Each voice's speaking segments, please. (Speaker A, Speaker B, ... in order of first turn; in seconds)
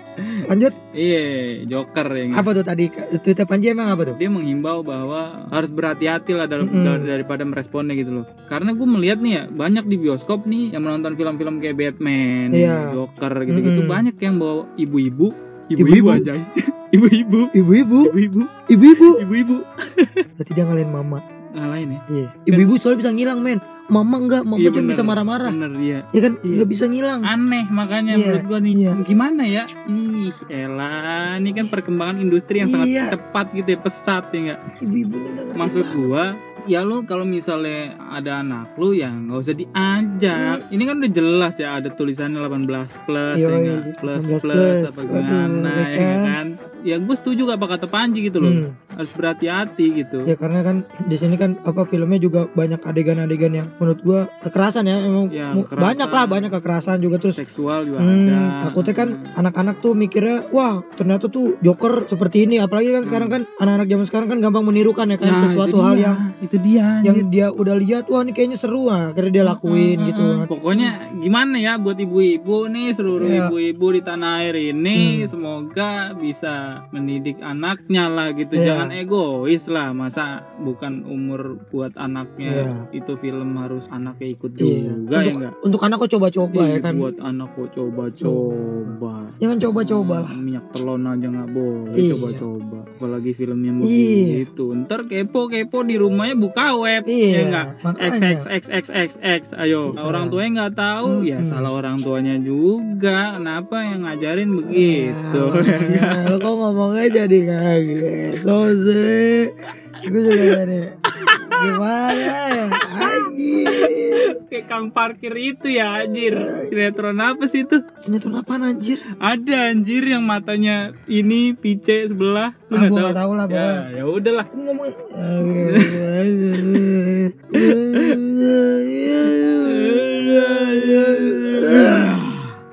Speaker A: 0.2-0.4, 0.9-2.5, 4.2-20.2, 21.6-22.7, 24.6-26.6, 27.3-34.6, 35.6-50.3, 55.3-56.6, 57.4-59.3, 63.0-63.4, 65.2-67.2, 69.4-85.5, 86.5-106.5, 111.2-117.8, 119.2-124.5, 125.6-126.9, 127.6-128.2, 129.6-132.6
Speaker B: 0.5-0.7, 2.3-4.2, 6.6-7.1, 12.5-12.9, 13.5-14.1, 15.8-16.3, 17.5-18.1, 18.7-19.2, 20.4-21.2, 22.1-25.6, 26.1-27.3, 28.1-29.0, 32.6-33.1, 34.8-36.3, 40.3-40.6, 43.3-46.4, 48.4-48.7, 50.2-57.4, 58.0-66.2, 67.0-70.9, 73.2-73.5, 75.0-75.3, 78.5-78.9, 82.4-82.8, 84.6-87.0, 88.2-90.3, 91.9-92.4, 93.8-94.4, 97.0-98.4, 99.9-100.4, 101.0-101.7, 104.7-109.5, 110.0-114.3, 116.3-116.7, 118.0-119.0, 122.7-123.8, 124.5-132.2